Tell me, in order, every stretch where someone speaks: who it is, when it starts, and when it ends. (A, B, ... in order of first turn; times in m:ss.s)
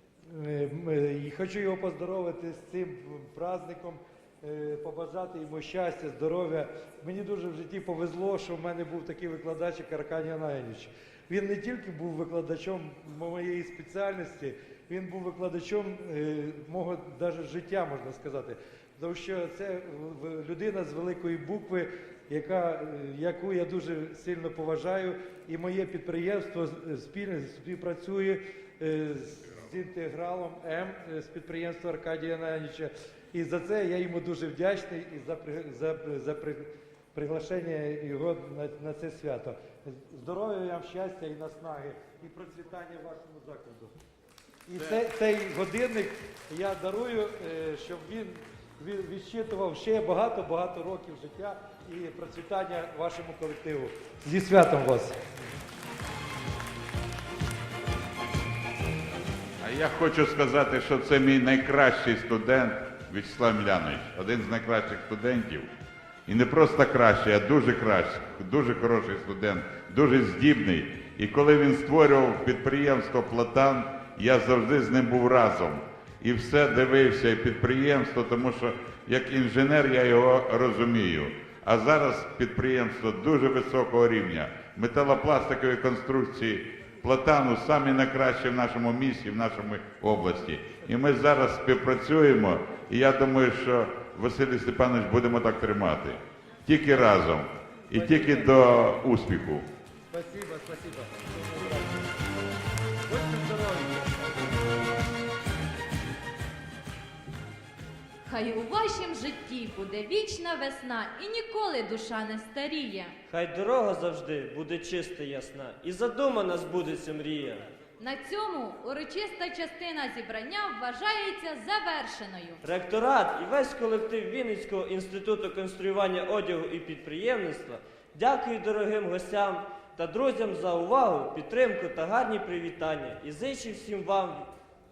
0:00.3-0:44.0 A
0:44.7-0:55.2 A
0:59.6-1:05.7 B
1:06.3-1:39.7 B
1:37.9-1:38.6 A
1:40.1-1:42.1 A
1:43.1-1:44.6 A
1:48.2-1:53.1 C
1:53.3-1:57.7 D
1:58.0-2:02.6 C
2:02.6-2:14.5 D